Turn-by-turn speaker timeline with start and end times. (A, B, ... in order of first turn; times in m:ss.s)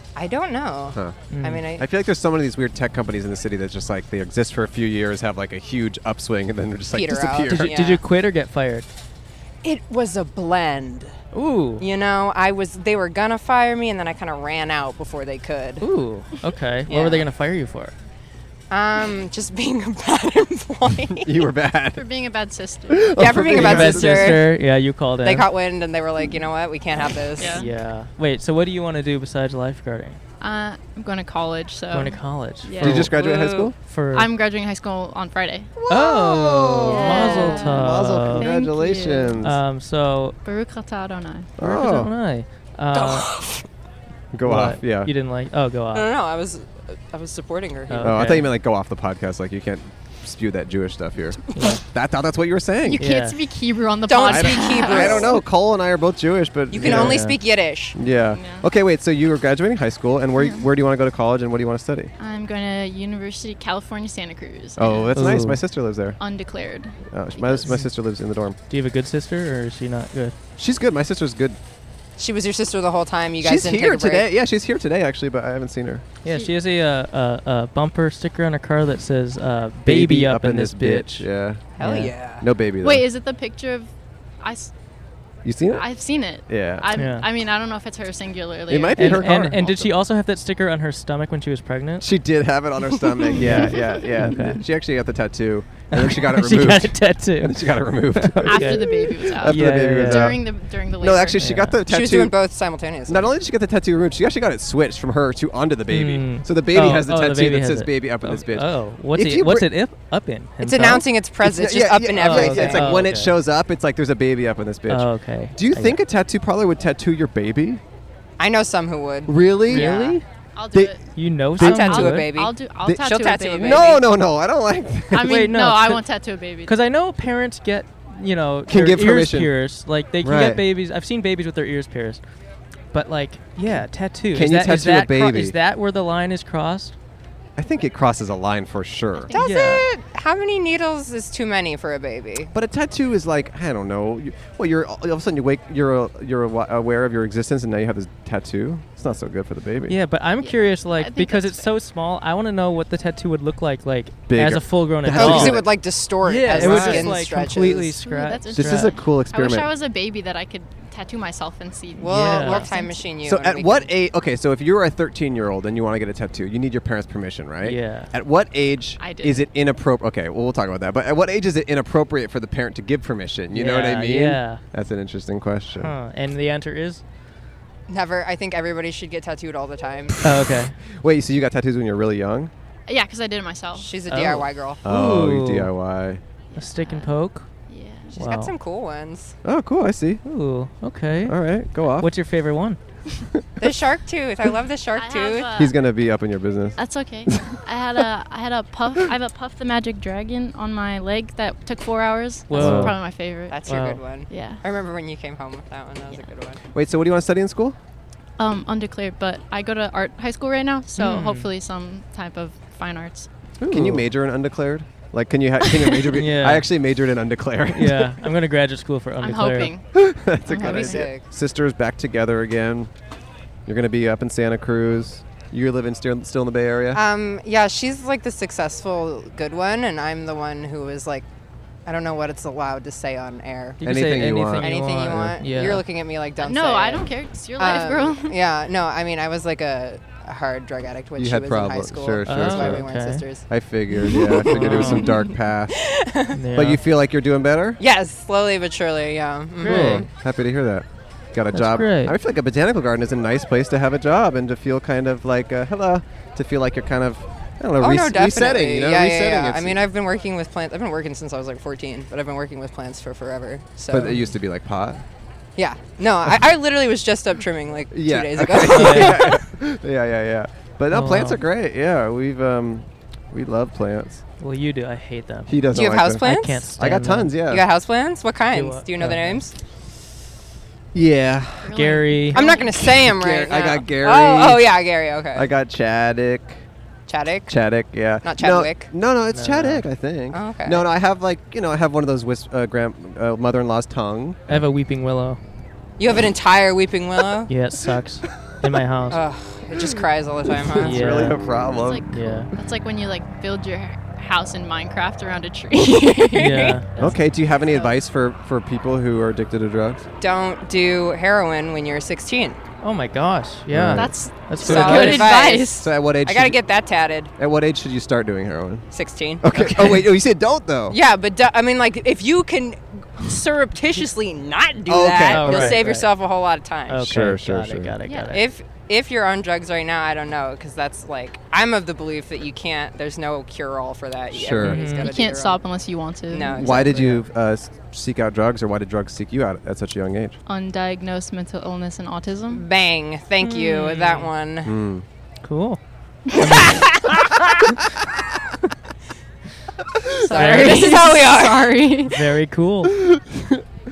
0:00.2-0:01.8 A
0:01.3-0:01.6 B
0:01.8-0:07.8 C
0:06.9-0:08.0 A
0:07.5-0:08.9 B
0:09.6-0:11.2 A
0:11.3-0:11.8 B
0:11.8-0:15.8 A
0:15.8-0:17.9 B
0:16.9-0:17.2 A
0:18.7-0:21.4 A
0:21.2-0:22.0 C
0:21.9-0:23.2 D
0:22.9-0:24.4 C
0:23.2-0:24.5 A
0:23.5-0:25.5 B
0:25.2-0:27.6 A
0:27.4-0:27.7 D
0:27.5-0:30.2 B
0:30.4-0:33.1 D
0:31.9-0:33.1 B
0:32.8-0:33.7 C
0:33.1-0:33.7 A
0:33.8-0:34.3 B
0:34.1-0:35.7 D
0:35.8-0:39.6 C
0:35.9-0:38.5 B
0:36.8-0:39.4 D
0:39.4-0:40.4 B
0:40.4-0:41.5 D
0:41.6-0:42.1 C
0:41.6-0:43.3 B
0:44.3-0:45.1 C
0:44.4-0:46.1 B
0:45.9-0:48.2 A
0:47.9-0:48.5 B
0:48.0-0:53.0 C
0:51.5-0:51.8 B
0:52.8-0:55.4 D
0:53.0-0:53.4 B
0:54.1-0:55.4 A
0:54.2-0:57.2 C
0:56.7-0:57.4 B
0:56.7-0:58.0 A
0:57.9-1:02.1 C
0:58.0-0:58.6 D
1:00.4-1:00.6 D
1:02.2-1:05.4 D
1:04.8-1:06.2 C
1:05.2-1:05.6 B
1:06.2-1:07.7 D
1:07.1-1:08.6 C
1:08.7-1:10.3 B
1:10.6-1:11.6 C
1:12.2-1:14.3 A
1:13.4-1:16.0 C
1:16.2-1:21.3 B
1:16.3-1:16.5 D
1:19.8-1:21.6 C
1:21.8-1:22.4 A
1:21.8-1:22.1 B
1:22.4-1:23.0 C
1:22.8-1:24.7 D
1:25.4-1:25.9 C
1:25.7-1:29.6 D
1:26.5-1:26.9 C
1:26.9-1:27.3 B
1:28.7-1:29.9 C
1:29.0-1:32.1 B
1:32.0-1:42.3 C
1:33.4-1:34.1 D
1:33.4-1:34.6 B
1:35.9-1:40.4 B
1:38.5-1:41.6 D
1:41.4-1:41.8 B
1:41.9-1:43.3 A
1:43.1-1:49.7 C
1:45.9-1:51.0 B
1:50.6-1:53.0 A
1:51.4-1:57.8 C
1:52.1-1:53.4 B
1:54.9-1:56.0 B
1:58.4-2:00.2 A
1:59.3-1:59.9 C
1:59.7-2:00.2 B
2:00.6-2:01.0 D
2:01.1-2:02.3 B
2:01.6-2:02.1 C
2:01.6-2:04.0 A
2:01.6-2:03.8 D
2:02.8-2:05.4 C
2:05.1-2:06.8 D
2:05.2-2:06.0 B
2:06.6-2:12.2 B
2:08.7-2:09.5 C
2:10.2-2:10.6 C
2:12.9-2:16.9 B
2:14.3-2:15.6 C
2:17.6-2:19.3 C
2:19.2-2:19.6 D
2:19.3-2:22.5 A
2:19.3-2:19.8 B
2:22.5-2:30.0 C
2:29.9-2:35.6 B
2:30.4-2:31.7 D
2:34.3-2:35.7 C
2:35.1-2:38.0 A
2:36.2-2:38.9 B
2:36.5-2:37.2 C
2:38.0-2:43.0 D
2:38.5-2:39.7 C
2:42.0-2:43.9 A
2:42.1-2:42.7 B
2:43.2-2:55.9 C
2:47.6-2:48.1 B
2:49.0-2:49.4 D
2:53.5-2:54.6 B
2:55.8-2:57.0 B
2:57.9-3:00.2 A
3:00.2-3:00.7 B
3:01.0-3:02.5 C
3:02.9-3:03.9 D
3:03.7-3:04.8 A
3:04.1-3:05.7 B
3:04.8-3:06.2 C
3:06.5-3:07.1 D
3:06.5-3:07.4 B
3:07.7-3:08.1 D
3:08.1-3:09.3 A
3:08.2-3:08.5 B
3:09.4-3:10.2 C
3:10.2-3:11.4 B
3:11.2-3:12.1 C
3:12.0-3:12.8 B
3:13.6-3:15.7 A
3:15.0-3:15.7 D
3:15.6-3:17.6 C
3:16.8-3:23.6 D
3:22.5-3:23.0 B
3:22.5-3:23.0 C
3:23.5-3:26.6 A
3:23.6-3:24.0 B
3:24.3-3:24.6 D
3:26.7-3:27.8 C
3:28.4-3:33.3 D
3:31.0-3:31.5 B
3:33.6-3:34.0 B
3:33.7-3:38.2 C
3:36.1-3:36.7 B
3:37.7-3:39.7 B
3:39.2-3:39.8 D
3:39.9-3:42.9 C
3:40.5-3:41.1 D
3:40.6-3:41.2 A
3:43.6-3:47.0 C
3:46.9-3:51.2 A
3:51.8-3:53.8 A
3:53.8-3:55.8 B
3:53.8-3:55.3 C
3:54.6-4:03.5 A
3:56.4-3:58.4 D
4:01.2-4:02.9 C
4:02.2-4:03.2 B
4:03.5-4:05.9 C
4:04.0-4:05.2 A
4:04.5-4:05.1 B
4:05.8-4:06.4 A
4:06.3-4:06.8 B
4:06.5-4:07.8 C
4:07.8-4:10.1 A
4:09.6-4:10.0 B
4:09.6-4:19.8 C
4:11.5-4:12.2 B
4:17.8-4:24.1 A
4:23.9-4:25.0 C
4:24.0-4:24.3 B
4:25.6-4:29.4 A
4:27.9-4:34.2 C
4:28.7-4:29.3 B
4:30.9-4:31.4 B
4:34.4-4:37.3 B
4:35.5-4:37.6 C
4:35.7-4:36.6 A
4:37.5-4:39.5 A
4:38.5-4:39.4 B
4:40.9-4:41.8 C
4:41.6-4:42.8 D
4:41.7-4:42.4 B
4:42.3-4:45.5 A
4:42.7-4:44.7 C
4:45.3-4:46.6 C
4:47.1-4:47.5 A
4:47.5-4:54.4 C
4:48.2-4:48.9 A
4:49.3-4:49.8 B
4:50.3-4:50.8 A
4:54.5-4:55.4 B
4:56.0-4:57.5 A
4:57.5-4:59.2 B
4:59.1-5:01.0 A
5:00.6-5:02.0 C
5:00.8-5:01.4 B
5:01.7-5:07.0 D
5:02.1-5:02.5 B
5:05.7-5:06.8 A
5:06.3-5:07.2 B
5:07.0-5:10.0 C
5:07.7-5:07.9 D
5:10.2-5:12.6 A
5:12.8-5:15.3 B
5:13.7-5:16.6 C
5:13.9-5:15.8 D
5:14.6-5:17.3 A
5:17.4-5:18.8 C
5:18.9-5:20.0 A
5:19.4-5:21.0 C
5:19.5-5:19.9 B
5:20.9-5:27.1 A
5:24.8-5:25.8 C
5:25.3-5:26.1 B
5:26.9-5:28.4 B
5:27.0-5:27.9 C
5:28.0-5:28.4 D
5:28.3-5:35.6 A
5:34.3-5:34.8 C
5:34.6-5:35.1 B
5:35.0-5:36.8 D
5:36.3-5:36.9 A
5:36.6-5:40.4 C
5:36.7-5:37.2 B
5:40.5-5:42.6 D
5:42.5-5:44.7 A
5:43.4-5:44.3 B
5:44.6-5:45.0 C
5:45.4-5:45.8 B
5:46.4-5:47.0 B
5:46.5-5:47.5 A
5:50.1-5:52.2 D
5:50.2-5:52.1 A
5:50.3-5:51.0 B
5:52.1-5:53.0 B
5:53.0-5:53.6 C